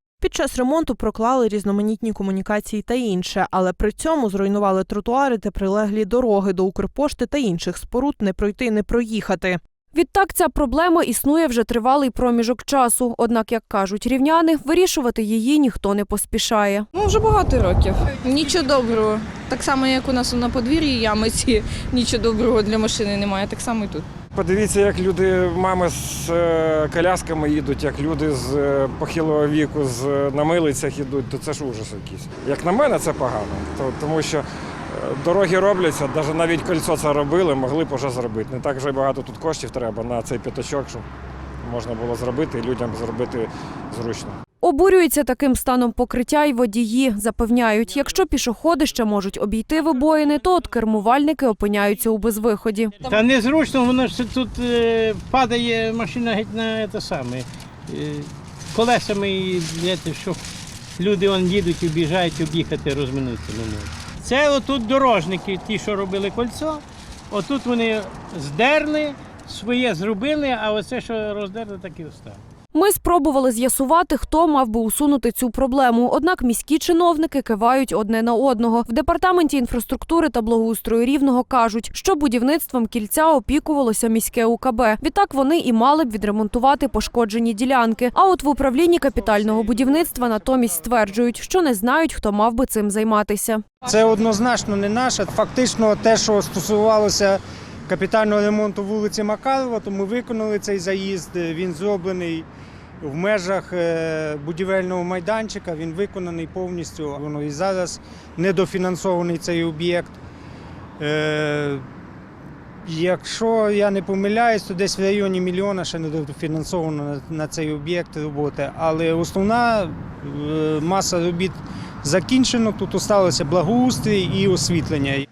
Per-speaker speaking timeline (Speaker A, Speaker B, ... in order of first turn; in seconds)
Speaker A: 0.2-9.6
Speaker B: 9.9-16.9, 44.6-53.0, 72.7-93.6
Speaker C: 16.9-24.1
Speaker D: 24.3-41.0, 41.6-44.4
Speaker E: 53.0-60.4, 61.0-72.4
Speaker F: 93.8-102.5, 103.0-110.2, 111.0-111.8, 112.8-125.2